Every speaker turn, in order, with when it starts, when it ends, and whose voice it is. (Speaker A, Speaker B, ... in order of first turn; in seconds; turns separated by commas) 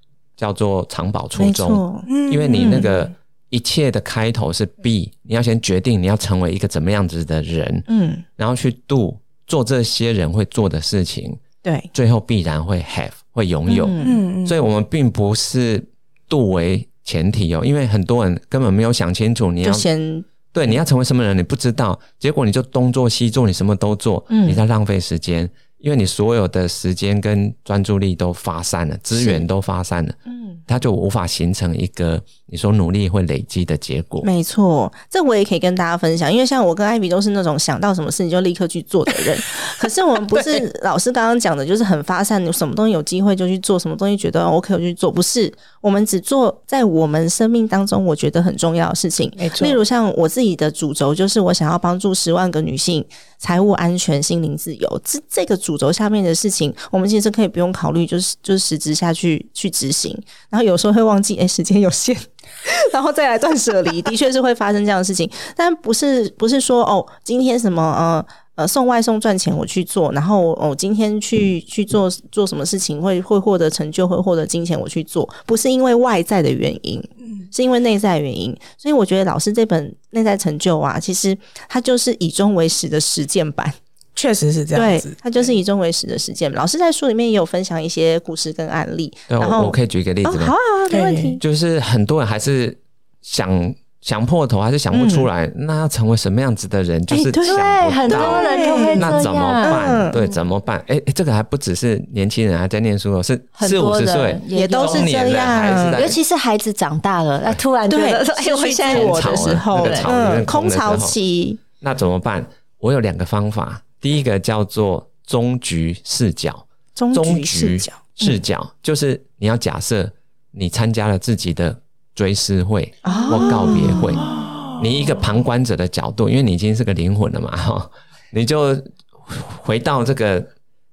Speaker A: 0.4-7.9, Speaker B: 1.4-2.9, Speaker C: 2.1-3.1, Speaker B: 7.9-8.2, Speaker A: 8.4-11.4, Speaker B: 11.6-11.9, Speaker A: 11.9-19.9, Speaker B: 13.7-14.2, Speaker C: 14.0-14.6, Speaker B: 19.6-20.3, Speaker A: 20.5-30.2, Speaker B: 24.3-24.6, Speaker B: 29.2-29.4, Speaker B: 30.3-30.6, Speaker A: 30.7-34.3, Speaker B: 34.2-83.8, Speaker C: 40.3-40.6, Speaker C: 49.4-49.8, Speaker C: 84.2-85.5, Speaker B: 84.8-91.4, Speaker A: 89.3-90.5, Speaker C: 90.9-91.4, Speaker A: 91.4-106.2, Speaker B: 94.9-95.3, Speaker B: 97.1-99.1, Speaker D: 97.4-100.4, Speaker C: 98.7-99.1, Speaker B: 99.6-100.2, Speaker D: 103.6-105.1, Speaker B: 104.5-106.0, Speaker D: 105.9-110.1, Speaker B: 107.9-111.6, Speaker A: 108.9-111.2, Speaker A: 111.8-124.3, Speaker B: 117.0-118.4, Speaker B: 123.0-124.4, Speaker C: 123.5-124.8, Speaker A: 124.8-130.5